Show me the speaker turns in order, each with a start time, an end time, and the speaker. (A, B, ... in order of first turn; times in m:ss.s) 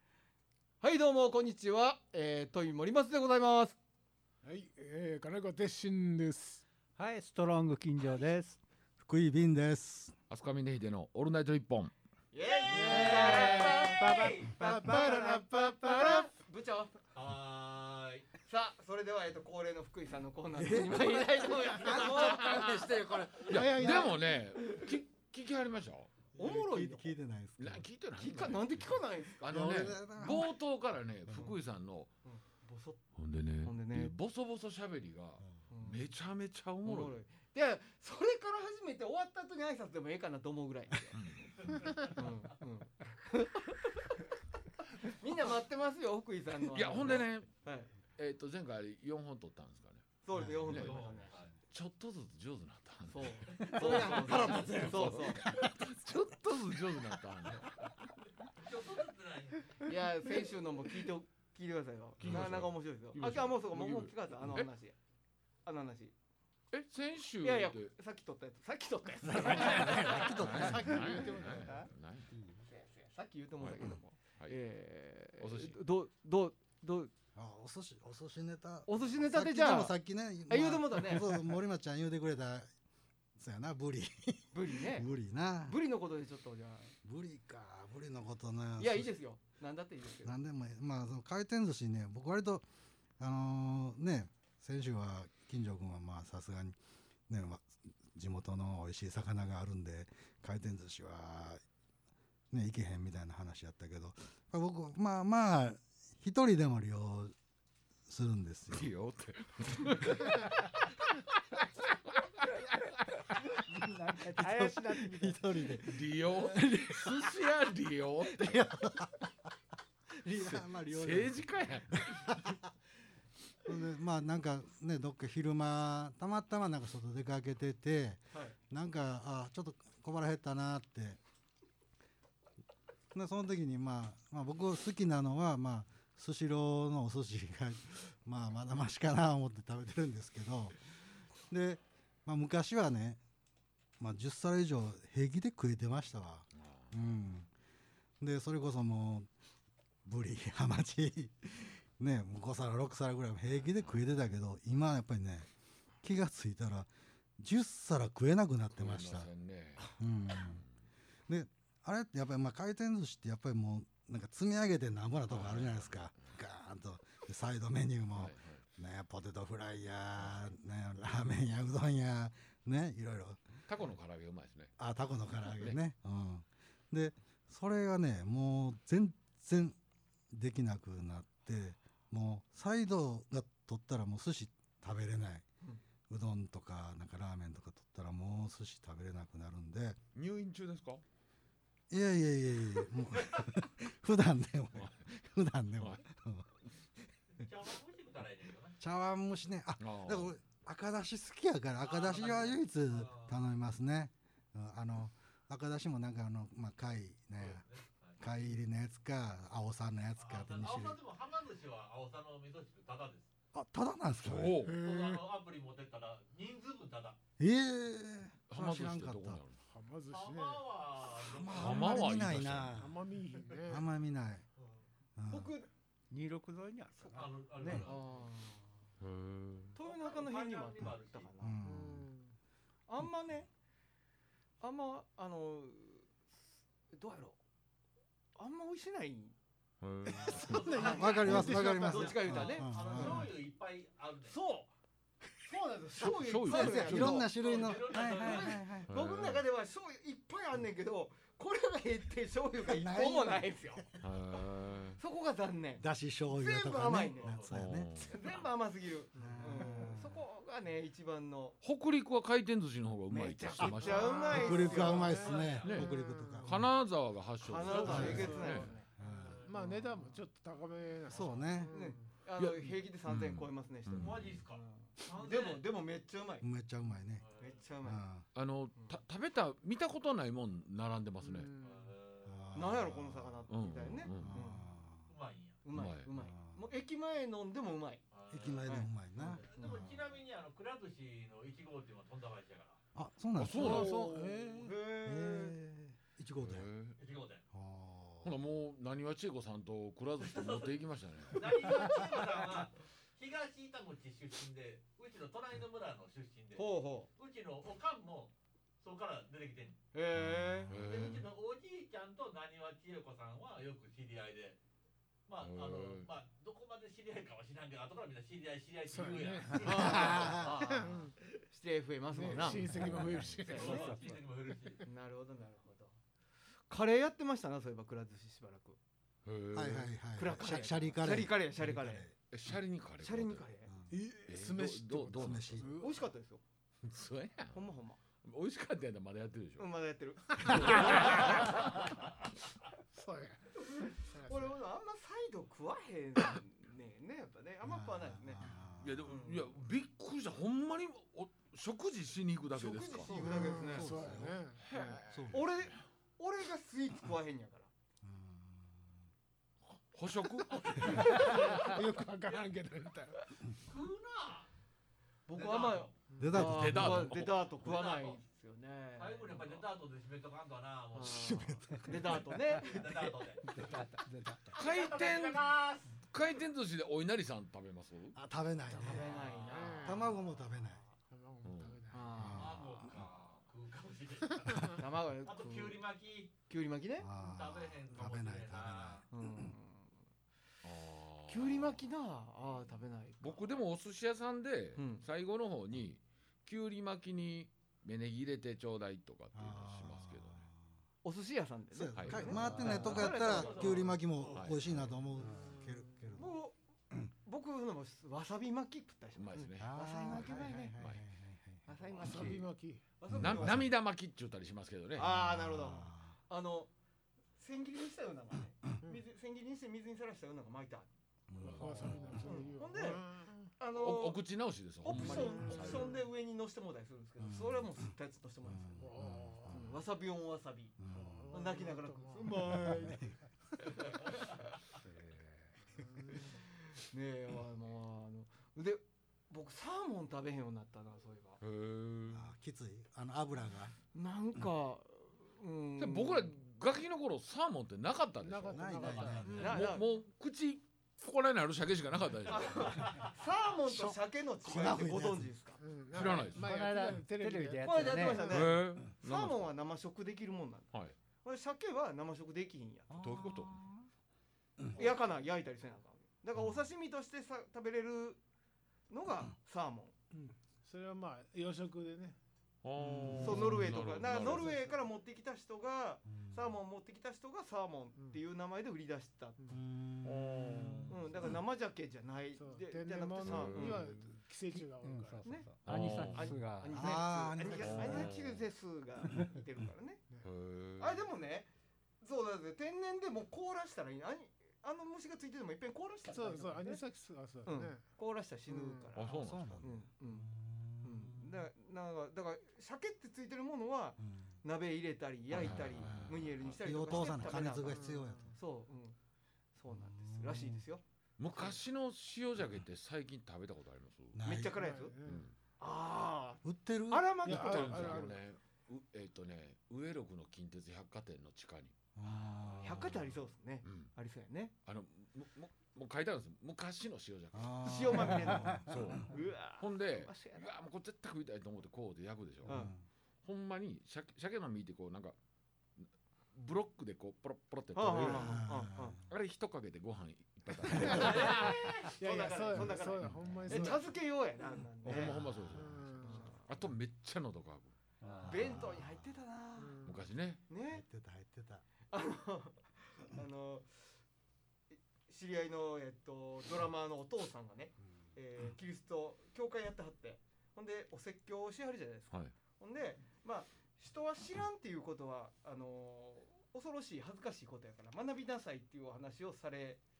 0:00.8-0:03.8 A
0:04.4-0:06.6 B
0:07.0-0:08.6 C
0:09.0-0:10.1 D
0:10.3-0:11.9 E
0:12.3-0:17.0 A
0:12.4-0:14.5 F
0:12.7-0:13.8 B
0:12.9-0:16.2 C
0:14.6-0:16.1 B
0:17.1-0:18.3 F
0:18.4-0:24.9 A
0:20.5-0:22.4 D
0:21.6-0:22.2 F
0:21.9-0:26.1 E
0:23.5-0:24.4 B
0:26.3-0:27.1 A
0:26.4-0:27.8 D
0:27.6-0:28.9 E
0:28.1-0:29.4 A
0:29.4-0:32.1 E
0:29.5-0:30.6 D
0:32.2-0:33.0 A
0:33.2-0:37.2 E
0:33.6-0:34.1 A
0:35.7-0:36.0 A
0:36.8-0:41.2 A
0:41.1-0:41.8 E
0:41.6-0:42.3 F
0:42.2-0:44.1 A
0:45.0-0:47.9 A
0:46.7-0:47.5 E
0:48.2-0:50.0 E
0:50.2-0:51.3 A
0:50.3-0:50.8 D
0:50.6-0:51.2 E
0:50.7-0:51.5 F
0:51.7-0:57.8 E
0:53.1-0:55.4 A
0:53.5-0:55.1 F
0:53.6-0:55.0 C
0:58.5-0:59.9 F
0:59.8-1:05.0 A
1:02.2-1:04.7 E
1:05.6-1:06.1 A
1:06.7-1:07.9 E
1:07.4-1:10.6 A
1:09.3-1:11.2 D
1:09.8-1:12.3 E
1:10.4-1:11.9 B
1:12.7-1:17.1 A
1:13.6-1:14.6 E
1:15.4-1:15.8 E
1:17.3-1:22.7 D
1:18.9-1:19.9 A
1:20.5-1:21.6 A
1:23.4-1:25.8 D
1:24.5-1:25.1 A
1:25.6-1:26.9 A
1:27.0-1:29.1 D
1:28.8-1:30.4 A
1:30.2-1:32.6 D
1:33.2-1:41.6 D
1:42.5-1:47.3 D
1:48.1-1:48.9 D
1:48.7-1:50.9 E
1:53.6-1:55.6 C
1:54.3-1:57.2 D
1:55.8-1:58.7 E
1:58.4-1:59.1 D
2:00.2-2:02.6 D
2:00.4-2:02.5 E
2:03.6-2:11.2 D
2:13.1-2:20.8 D
2:21.5-2:23.2 D
2:24.0-2:27.5 D
2:26.5-2:27.0 E
2:28.2-2:29.3 D
2:30.0-2:35.5 D
2:36.0-2:39.3 D
2:38.7-2:40.7 E
2:39.9-2:40.6 D
2:41.3-2:53.5 D
2:45.3-2:46.3 E
2:48.2-2:48.6 E
2:50.2-2:50.5 E
2:53.7-2:54.8 E
2:54.8-2:59.8 D
3:00.3-3:05.4 D
3:06.1-3:10.0 D
3:10.1-3:11.0 E
3:11.9-3:16.5 D
3:17.4-3:18.8 F
3:18.8-3:27.6 D
3:19.8-3:20.3 E
3:21.8-3:23.4 F
3:27.4-3:28.2 F
3:28.2-3:31.0 D
3:30.2-3:33.3 F
3:33.5-3:34.6 D
3:34.2-3:34.8 E
3:34.6-3:35.2 B
3:34.7-3:37.2 F
3:37.4-3:39.4 D
3:38.5-3:39.6 E
3:39.7-3:40.6 B
3:40.1-3:42.0 F
3:41.3-3:43.0 D
3:41.5-3:42.8 E
3:42.7-3:43.9 B
3:43.7-3:44.4 D
3:44.6-3:44.8 F
3:45.2-3:45.5 D
3:45.3-3:45.7 A
3:46.1-3:47.3 C
3:47.1-3:48.7 A
3:47.1-3:48.3 F
3:47.6-3:47.9 D
3:49.0-3:49.8 E
3:49.7-3:51.6 A
3:49.8-3:51.3 F
3:51.4-3:52.1 D
3:51.6-3:52.3 B
3:52.9-3:53.5 A
3:54.6-3:56.2 A
3:56.9-3:57.4 A
3:58.4-3:59.3 A
3:59.8-4:00.6 E
4:00.1-4:04.4 F
4:00.5-4:02.1 B
4:00.7-4:03.3 D
4:00.8-4:03.3 A
4:04.3-4:04.7 A
4:05.4-4:14.0 A
4:06.0-4:07.3 E
4:06.4-4:08.9 D
4:07.3-4:08.6 F
4:08.9-4:09.4 E
4:12.6-4:14.0 D
4:14.0-4:15.0 E
4:15.0-4:17.4 A
4:15.8-4:17.9 D
4:17.2-4:17.6 F
4:17.5-4:18.3 E
4:18.0-4:21.6 A
4:19.2-4:20.2 D
4:21.6-4:24.8 E
4:23.1-4:25.3 A
4:23.6-4:26.7 D
4:24.0-4:26.5 B
4:24.4-4:25.9 F
4:25.6-4:25.9 E
4:26.4-4:28.7 E
4:27.4-4:28.9 A
4:27.6-4:30.1 F
4:27.8-4:28.4 D
4:29.0-4:29.4 D
4:29.0-4:32.1 B
4:31.1-4:31.8 D
4:31.2-4:31.4 F
4:31.7-4:36.4 A
4:32.4-4:34.4 E
4:33.9-4:35.6 F
4:36.4-4:37.2 D
4:37.2-4:37.6 F
4:37.4-4:38.0 A
4:37.8-4:38.2 D
4:38.3-4:41.5 E
4:41.2-4:41.9 B
4:41.6-4:42.8 F
4:42.2-4:43.5 D
4:42.5-4:44.7 A
4:43.5-4:44.4 E
4:44.1-4:45.1 D
4:45.1-4:45.6 F
4:45.6-4:48.0 A
4:45.7-4:46.1 E
4:46.1-4:46.7 D
4:48.1-4:52.8 F
4:48.3-4:49.9 D
4:49.5-4:49.9 A
4:52.9-4:53.9 D
4:53.4-4:54.1 E
4:53.5-4:54.7 B
4:53.6-4:55.6 A
4:55.0-4:56.7 D
4:56.4-4:57.0 E
4:57.0-4:57.4 F
4:57.5-4:58.3 D
4:58.2-5:01.5 E
5:00.2-5:00.8 F
5:01.3-5:09.8 F
5:06.6-5:07.1 A
5:09.9-5:10.7 A
5:10.3-5:10.7 D
5:10.7-5:11.3 E
5:10.7-5:14.6 F
5:15.3-5:20.4 F
5:15.4-5:16.1 E
5:18.9-5:21.1 B
5:19.6-5:23.9 A
5:19.7-5:20.6 D
5:22.1-5:24.1 B
5:22.9-5:23.4 E
5:23.4-5:24.8 F
5:24.8-5:25.9 A
5:26.7-5:28.8 A
5:29.2-5:30.0 E
5:29.5-5:32.1 D
5:30.2-5:32.1 A
5:32.3-5:33.5 E
5:33.0-5:33.7 A
5:33.9-5:35.9 B
5:34.3-5:35.6 E
5:35.2-5:35.7 D
5:35.6-5:36.4 A
5:36.8-5:37.7 E
5:37.5-5:38.0 A
5:38.2-5:39.7 E
5:39.6-5:41.6 A
5:40.4-5:41.7 E
5:40.4-5:40.8 B
5:42.9-5:43.4 B
5:43.6-5:48.4 A
5:44.1-5:44.6 B
5:47.6-5:49.0 D
5:48.8-5:53.1 E
5:49.0-5:49.4 A
5:52.5-5:54.1 A
5:53.1-5:54.4 D
5:53.2-5:55.0 B
5:54.7-5:57.7 A
5:54.8-5:55.4 E
5:55.1-5:55.7 D
5:58.0-5:58.9 D
5:59.9-6:01.2 E
6:00.5-6:02.4 F
6:00.8-6:03.3 B
6:03.6-6:04.5 F
6:05.3-6:09.7 A
6:05.3-6:05.9 F
6:06.2-6:07.2 D
6:06.3-6:07.6 E
6:07.6-6:08.2 F
6:09.0-6:11.4 F
6:10.9-6:13.2 A
6:11.0-6:12.2 D
6:12.1-6:13.8 F
6:13.4-6:14.6 C
6:14.5-6:16.0 F
6:14.5-6:15.6 E
6:16.1-6:18.2 E
6:18.1-6:19.2 D
6:18.7-6:20.2 A
6:18.8-6:19.8 F
6:19.5-6:20.2 B
6:19.8-6:20.8 D
6:21.1-6:22.3 B
6:21.4-6:21.8 E
6:21.9-6:22.5 A
6:22.1-6:23.0 D
6:22.3-6:26.3 F
6:24.7-6:25.8 A
6:26.5-6:27.1 A
6:27.0-6:29.0 D
6:27.2-6:29.1 F
6:29.1-6:29.9 A
6:30.6-6:31.8 E
6:31.3-6:33.4 A
6:33.2-6:40.4 E
6:34.8-6:35.0 A
6:39.3-6:40.6 D
6:41.0-6:44.0 A
6:41.7-6:46.4 D
6:41.9-6:42.8 E
6:42.6-6:44.6 F
6:44.3-6:44.8 E
6:45.2-6:46.6 A
6:47.2-6:50.8 A
6:49.1-6:51.0 E
6:49.6-6:51.7 D
6:51.6-6:52.5 A
6:52.0-6:52.8 B
6:53.0-6:53.7 A
6:53.1-6:53.7 D
6:53.1-6:55.2 E
6:55.0-6:56.7 A
6:55.1-6:56.2 D
6:57.4-7:00.9 A
7:01.3-7:02.4 D
7:01.4-7:03.5 B
7:01.5-7:04.2 A
7:03.7-7:06.0 E
7:04.8-7:08.9 A
7:05.1-7:05.9 B
7:07.2-7:07.8 D
7:08.5-7:09.7 D
7:08.8-7:09.6 B
7:09.5-7:13.0 A
7:10.8-7:11.4 D
7:10.9-7:13.0 B
7:12.4-7:13.2 D
7:13.7-7:14.3 A
7:15.8-7:16.3 B
7:16.3-7:21.4 A
7:21.4-7:22.3 E
7:22.1-7:23.7 D
7:23.9-7:26.3 A
7:25.8-7:28.8 E
7:28.2-7:29.6 B
7:28.5-7:29.6 D
7:28.8-7:29.6 F
7:29.4-7:29.9 A
7:29.4-7:32.9 E
7:32.3-7:35.6 A
7:32.3-7:33.2 F
7:33.7-7:35.3 D
7:35.6-7:38.4 B
7:35.9-7:36.5 E
7:36.4-7:38.4 C
7:37.6-7:40.7 A
7:38.2-7:39.5 E
7:41.2-7:43.1 A
7:42.9-7:43.8 D
7:43.0-7:43.6 E
7:44.6-7:44.8 D
7:44.7-7:48.2 A
7:48.9-7:49.9 A
7:50.2-7:52.2 B
7:52.6-7:54.7 E
7:52.8-7:53.8 D
7:53.2-7:59.4 A
7:54.4-7:54.6 B
7:56.1-7:56.6 D
7:59.5-8:01.0 D
8:00.0-8:01.3 E
8:00.9-8:04.0 A
8:02.3-8:05.4 B
8:03.2-8:03.9 E
8:04.8-8:07.0 C
8:05.2-8:10.0 A
8:05.6-8:06.4 E
8:06.7-8:08.1 D
8:07.4-8:08.4 E
8:10.2-8:11.1 E
8:10.8-8:11.5 A
8:12.0-8:16.8 A
8:16.1-8:17.9 B
8:17.4-8:20.3 A
8:18.5-8:19.0 B
8:18.9-8:19.7 E
8:19.1-8:21.5 D
8:20.8-8:29.0 A
8:24.0-8:24.3 D
8:25.3-8:26.6 E
8:25.3-8:28.4 D
8:27.6-8:28.3 B
8:29.5-8:30.8 A
8:29.7-8:30.6 D
8:31.2-8:34.2 E
8:34.1-8:34.6 D
8:34.2-8:35.0 A
8:34.5-8:35.3 B
8:35.0-8:35.3 E
8:35.6-8:38.2 A
8:36.4-8:37.3 D
8:37.2-8:38.2 B
8:37.2-8:41.7 E
8:42.0-8:43.0 D
8:42.1-8:44.5 A
8:42.4-8:43.9 E
8:44.6-8:52.7 E
8:47.3-8:49.0 D
8:47.6-8:50.5 A
8:52.4-8:52.7 A
8:52.4-8:52.8 D
8:53.2-8:55.2 E
8:55.8-8:58.5 E
8:57.7-8:59.0 A
8:58.1-8:59.0 D
8:59.1-9:01.6 E
9:00.7-9:05.3 A
9:00.8-9:03.9 B
9:00.8-9:01.9 F
9:03.1-9:03.7 D
9:04.8-9:07.7 E
9:04.9-9:06.4 B
9:06.0-9:06.4 A
9:08.0-9:09.1 D
9:08.2-9:09.8 A
9:09.6-9:10.0 B
9:09.8-9:10.4 E
9:10.5-9:10.8 A
9:10.7-9:11.6 D
9:11.9-9:13.7 A
9:15.1-9:29.8 A